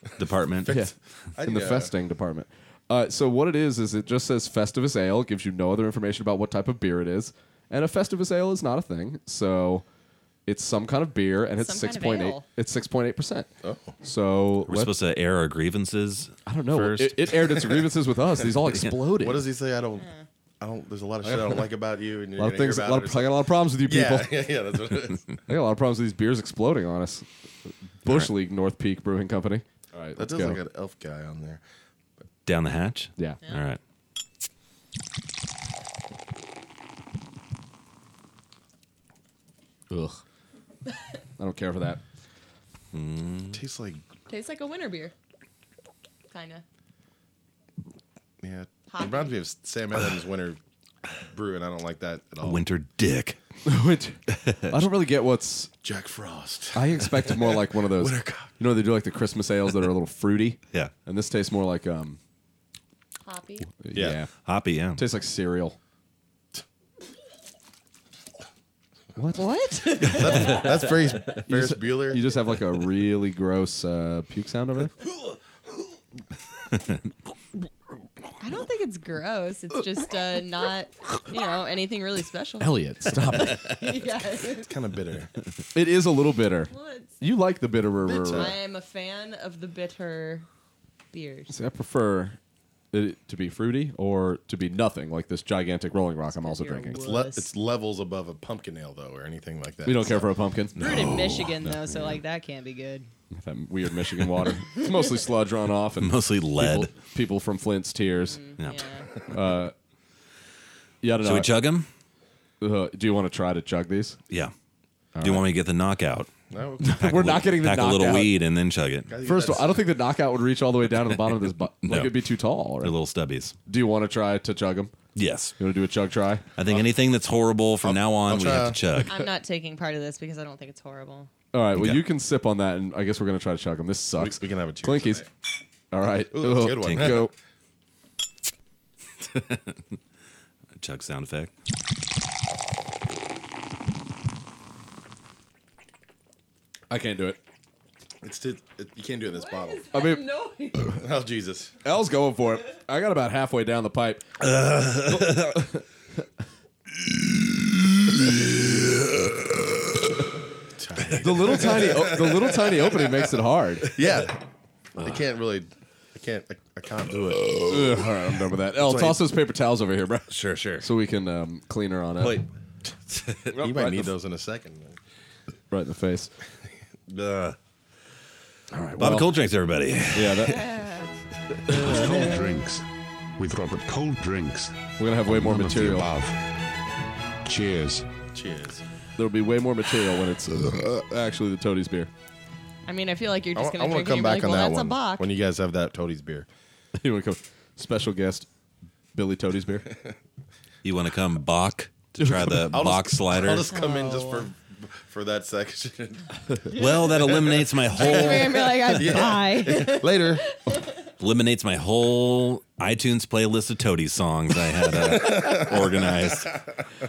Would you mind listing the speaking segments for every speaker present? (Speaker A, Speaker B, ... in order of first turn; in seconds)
Speaker A: 0.1-0.8, 14.7-16.4, 28.1-28.3, 32.5-33.8, 42.9-43.6, 52.4-53.4, 54.3-54.8, 64.5-65.0, 100.9-101.5, 106.0-106.9, 111.2-111.9, 115.2-116.3, 116.8-119.1, 121.8-122.1, 122.8-123.5, 125.2-125.5, 126.6-129.2, 131.8-132.0, 136.8-137.2, 139.3-139.8, 140.8-141.5, 154.5-155.5, 170.3-170.9, 173.1-173.4, 177.1-177.6, 179.0-180.5, 200.8-203.7, 206.7-208.7, 211.2-216.6
Speaker B: 0.6-1.9, 13.6-13.9, 16.8-17.9, 19.1-20.1, 20.6-25.3, 30.2-31.6, 43.5-44.0, 48.4-50.6, 51.3-52.6, 55.8-58.5, 63.9-64.2, 70.0-72.3, 84.5-85.3, 88.0-88.6, 97.0-100.3, 116.5-117.4, 119.1-119.8, 127.8-129.0, 134.2-135.3, 136.3-137.3, 148.2-149.9, 150.9-151.7, 160.8-163.1, 163.9-164.4, 165.0-168.0, 168.8-169.2, 173.5-175.0, 188.3-188.8, 193.6-196.5, 202.7-206.3, 208.0-210.5, 214.9-216.6
Speaker C: 0.7-9.8, 10.5-13.5, 14.0-14.9, 16.5-19.5, 21.2-21.6, 22.4-24.4, 25.5-27.3, 28.0-30.6, 39.9-40.2, 41.4-42.0, 53.6-55.7, 56.7-62.2, 63.8-64.3, 65.0-65.8, 69.2-70.7, 71.3-75.0, 82.6-83.8, 85.7-88.5, 91.5-92.4, 92.9-97.0, 99.8-101.2, 103.3-108.4, 109.3-109.7, 111.0-111.5, 112.6-114.2, 115.2-115.5, 116.8-118.4, 119.2-123.0, 123.7-125.0, 125.6-126.5, 131.5-135.2, 135.9-137.3, 146.9-147.4, 149.9-150.3, 151.8-155.8, 161.1-164.0, 167.6-172.4, 173.5-174.1, 175.7-176.3, 178.7-179.3, 180.1-180.7, 181.7-182.2, 185.0-186.1, 189.2-192.1, 197.0-198.5, 199.2-199.9, 202.2-202.7
Speaker D: 11.6-12.5, 20.0-20.2, 44.3-45.1, 46.3-46.6, 48.9-49.4, 63.2-63.7, 69.7-70.6, 78.4-84.7, 86.7-87.2, 88.3-90.5, 91.1-91.5, 96.3-97.5, 100.8-103.1, 108.3-109.1, 129.1-131.3, 149.3-151.0, 180.5-181.1, 192.9-195.3, 203.7-204.5, 206.7-207.2, 207.9-210.8
Speaker E: 181.7-182.8, 183.4-184.8, 185.3-186.4, 187.4-188.1